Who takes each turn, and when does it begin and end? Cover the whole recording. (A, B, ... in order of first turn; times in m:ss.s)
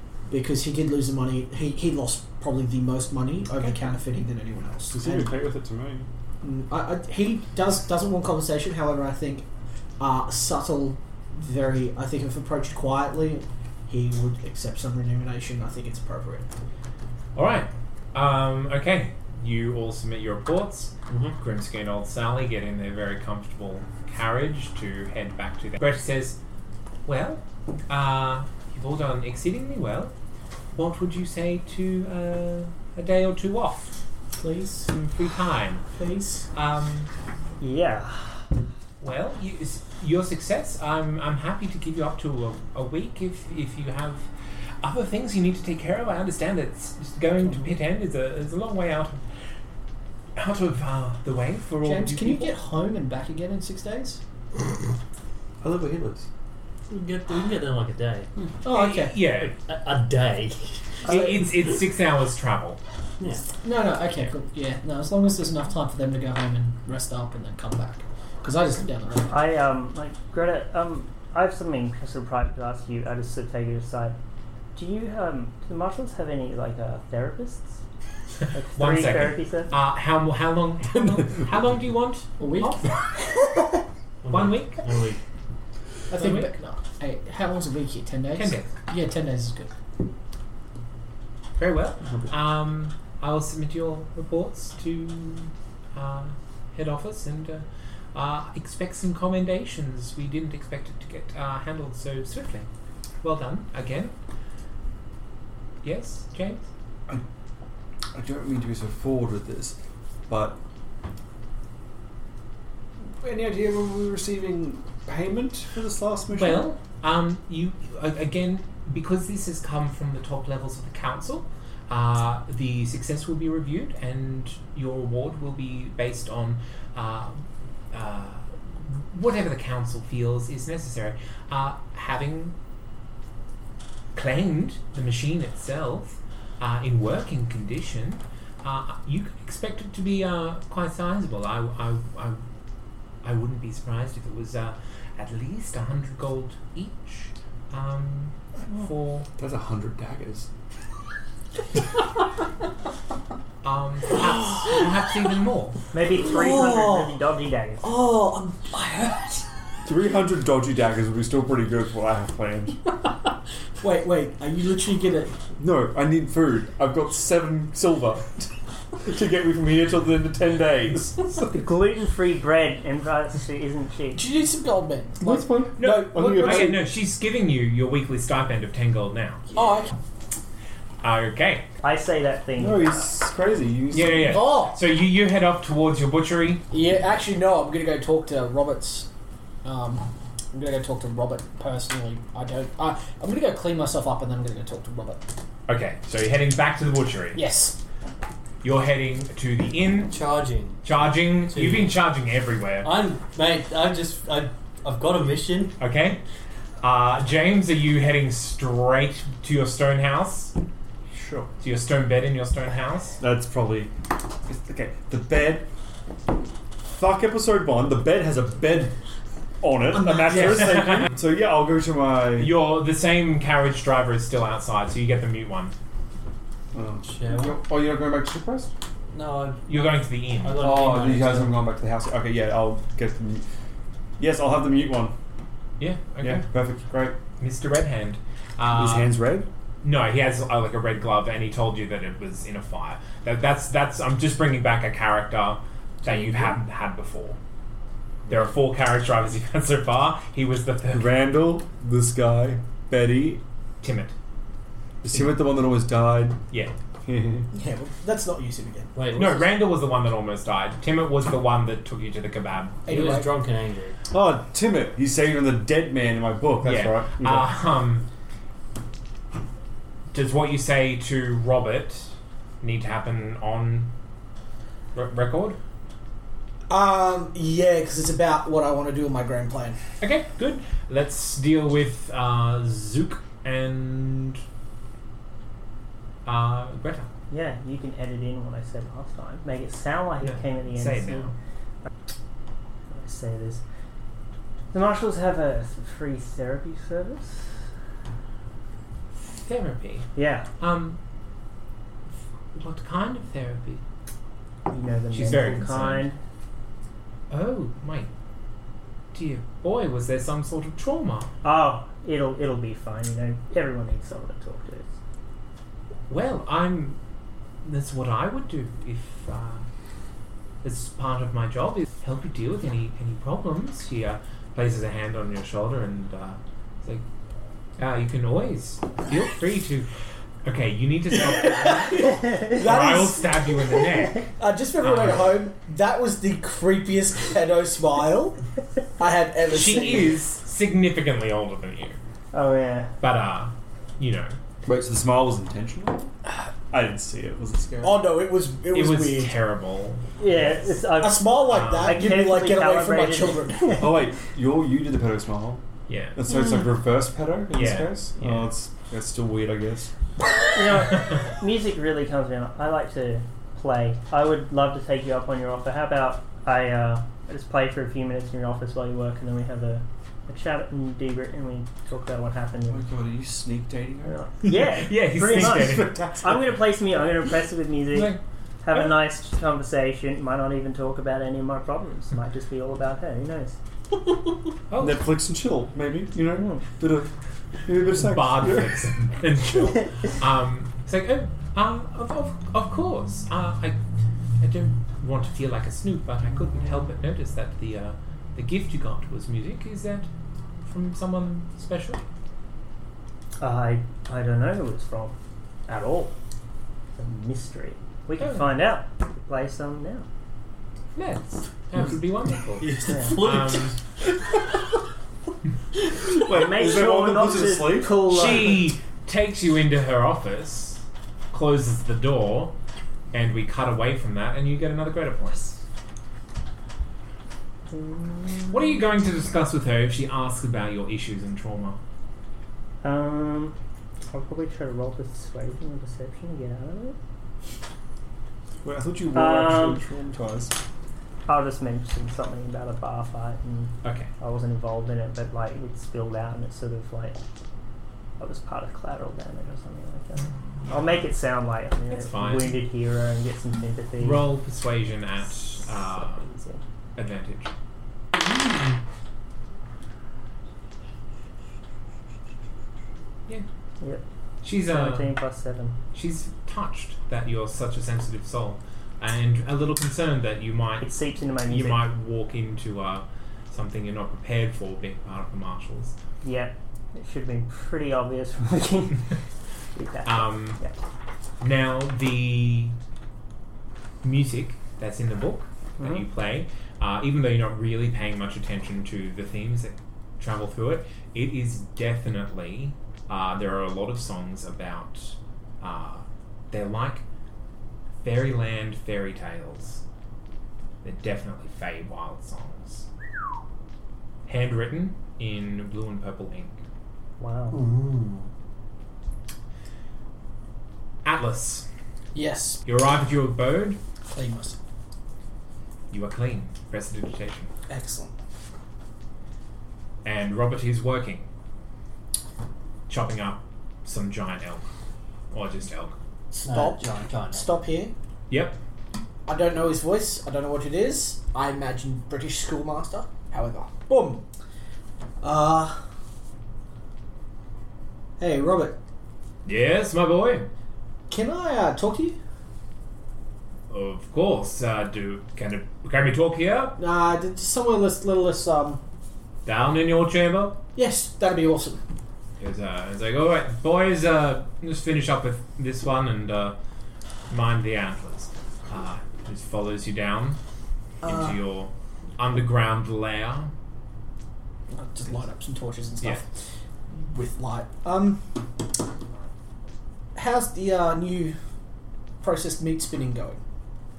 0:00.3-0:05.3 A
0:04.9-0:06.1 B
0:06.4-0:09.4 A
0:10.0-0:16.5 A
0:17.3-0:26.4 C
0:21.1-0:21.4 D
0:27.0-0:30.1 C
0:30.7-0:33.9 C
0:34.3-0:34.9 A
0:34.9-0:35.8 C
0:35.9-0:36.5 A
0:36.5-0:37.1 C
0:37.6-0:38.4 E
0:39.0-0:44.3 C
0:44.8-0:49.2 C
0:50.4-0:52.5 C
0:51.8-0:54.2 A
0:55.6-0:56.3 B
0:56.9-0:58.3 D
0:58.6-0:59.2 A
0:58.7-0:59.6 C
0:59.4-1:00.8 D
1:01.0-1:01.5 A
1:01.0-1:02.8 C
1:03.6-1:09.4 A
1:09.3-1:14.2 E
1:14.7-1:17.8 E
1:18.5-1:19.7 E
1:18.8-1:22.9 C
1:22.4-1:23.3 A
1:24.2-1:25.2 D
1:24.3-1:24.8 C
1:26.1-1:29.7 A
1:26.1-1:26.5 C
1:28.3-1:28.7 C
1:31.6-1:42.7 C
1:32.0-1:32.3 B
1:43.2-1:44.1 C
1:45.8-1:46.6 C
1:48.1-1:49.8 B
1:50.3-1:50.6 B
1:53.2-1:56.7 B
1:56.3-2:12.5 C
2:14.1-2:22.4 C
2:23.2-2:29.3 C
2:29.4-2:30.5 B
2:33.6-2:35.8 C
2:35.9-2:37.9 E
2:36.2-2:37.2 A
2:37.8-2:39.4 A
2:39.8-2:42.8 B
2:43.8-2:45.4 A
2:45.6-2:48.5 B
2:49.0-2:51.6 B
2:51.4-2:54.2 E
2:54.1-2:56.7 A
2:55.2-2:56.8 B
2:55.8-2:59.5 C
2:59.5-2:59.9 A
3:01.0-3:01.7 C
3:01.8-3:03.1 E
3:02.6-3:04.4 B
3:03.9-3:06.6 C
3:04.2-3:04.8 A
3:06.7-3:09.1 A
3:09.6-3:15.2 A
3:15.7-3:17.4 C
3:17.3-3:17.8 A
3:18.6-3:20.1 C
3:20.1-3:20.8 D
3:20.8-3:22.9 C
3:21.5-3:22.0 D
3:22.8-3:25.8 D
3:25.8-3:26.2 C
3:26.8-3:30.5 C
3:31.2-3:31.5 B
3:31.6-3:33.2 C
3:33.2-3:33.9 B
3:34.5-3:35.7 B
3:36.8-3:39.0 B
3:39.6-3:42.5 B
3:39.9-3:40.9 A
3:40.3-3:41.1 C
3:42.4-3:45.7 C
3:46.7-3:48.7 B
3:47.0-3:47.6 D
3:49.1-3:49.9 D
3:49.7-3:50.6 C
3:50.4-3:51.6 D
3:50.6-3:53.4 B
3:54.2-3:55.1 B
3:55.8-3:56.4 C
3:56.2-3:57.2 B
3:57.4-3:59.1 C
3:58.7-3:59.5 B
3:59.8-4:07.4 C
4:06.0-4:06.5 B
4:08.3-4:11.1 C
4:10.9-4:13.4 B
4:13.8-4:14.1 C
4:15.0-4:16.4 B
4:17.0-4:17.5 B
4:17.5-4:18.9 A
4:18.9-4:19.5 D
4:19.1-4:22.8 C
4:22.8-4:23.3 A
4:22.9-4:24.0 D
4:24.1-4:27.4 B
4:26.6-4:28.0 C
4:30.1-4:33.9 C
4:34.9-4:35.6 C
4:36.7-4:39.8 A
4:40.0-4:44.4 C
4:46.2-4:47.1 C
4:47.3-4:51.3 E
4:50.2-4:51.3 C
4:52.9-4:53.6 E
4:54.7-4:57.5 E
4:59.1-5:01.0 C
5:00.1-5:00.5 E
5:02.5-5:03.8 C
5:04.7-5:06.2 E
5:05.1-5:06.1 C
5:07.3-5:08.1 C
5:09.1-5:11.3 C
5:11.4-5:14.9 E
5:16.1-5:17.0 C
5:17.6-5:19.6 C
5:20.6-5:27.0 C
5:27.8-5:29.9 C
5:30.4-5:35.4 C
5:31.1-5:38.4 A
5:39.0-5:40.2 A
5:39.5-5:42.0 C
5:42.3-5:42.9 E
5:43.0-5:44.3 C
5:44.6-5:48.0 B
5:47.8-5:49.3 A
5:48.7-5:50.1 C
5:50.2-5:53.9 E
5:51.0-5:54.0 A
5:51.4-5:52.0 C
5:53.8-5:55.6 B
5:55.9-5:56.2 C
5:56.1-5:59.9 B
5:57.5-5:58.4 C
6:00.5-6:12.8 E
6:12.7-6:14.2 B
6:14.0-6:23.6 E
6:14.5-6:16.0 C
6:15.2-6:16.6 B
6:17.9-6:18.2 C
6:24.7-6:25.0 C
6:24.8-6:27.1 B
6:26.3-6:26.6 E
6:27.6-6:28.8 B
6:27.9-6:33.8 C
6:34.4-6:40.1 C
6:40.6-6:42.0 C
6:43.4-6:45.1 E
6:45.7-6:46.1 E
6:47.0-6:50.0 E
6:48.2-6:48.5 C
6:50.9-6:53.7 C
6:52.6-6:53.7 D
6:52.9-6:53.2 E
6:56.1-6:58.1 B
6:56.3-6:58.7 E
6:58.1-7:02.5 C
7:03.1-7:05.6 C
7:07.7-7:08.8 E
7:08.5-7:11.8 C
7:12.8-7:17.0 E
7:18.6-7:20.5 B
7:19.1-7:19.8 E
7:21.3-7:27.2 E
7:23.8-7:24.1 C
7:28.2-7:34.2 E
7:31.9-7:32.6 C
7:34.0-7:36.3 C
7:35.8-7:36.6 E
7:37.0-7:37.5 C
7:44.4-7:45.1 C
7:44.7-7:45.8 E
7:45.9-7:50.9 C
7:50.8-7:51.8 E
7:51.5-7:55.9 C
7:56.2-7:59.1 E
7:59.7-8:00.8 E
8:00.0-8:00.6 C
8:01.4-8:02.8 C
8:04.0-8:17.0 C
8:05.8-8:06.0 E
8:18.0-8:19.8 C
8:20.8-8:22.9 C
8:24.2-8:26.6 C
8:27.2-8:27.6 E
8:27.5-8:28.3 D
8:31.0-8:31.7 C
8:32.1-8:32.6 A
8:32.6-8:33.8 C
8:34.1-8:34.6 A
8:35.9-8:37.5 C
8:37.7-8:38.1 A
8:40.0-8:41.3 C
8:42.9-8:44.7 C
8:45.3-8:45.9 C
8:46.3-8:47.5 D
8:46.3-8:47.9 A
8:48.3-8:48.6 C
8:49.2-8:54.2 A
8:55.2-8:55.8 A
8:58.2-8:58.8 A
8:59.4-9:00.5 C
9:01.1-9:02.2 A
9:03.7-9:06.8 C
9:06.8-9:08.8 A
9:09.4-9:10.6 C
9:10.7-9:11.8 A
9:12.4-9:16.6 C
9:17.3-9:20.4 C
9:21.0-9:21.4 A
9:21.0-9:23.5 C
9:24.7-9:26.3 A
9:26.9-9:28.3 A
9:30.1-9:31.4 A
9:32.2-9:33.4 A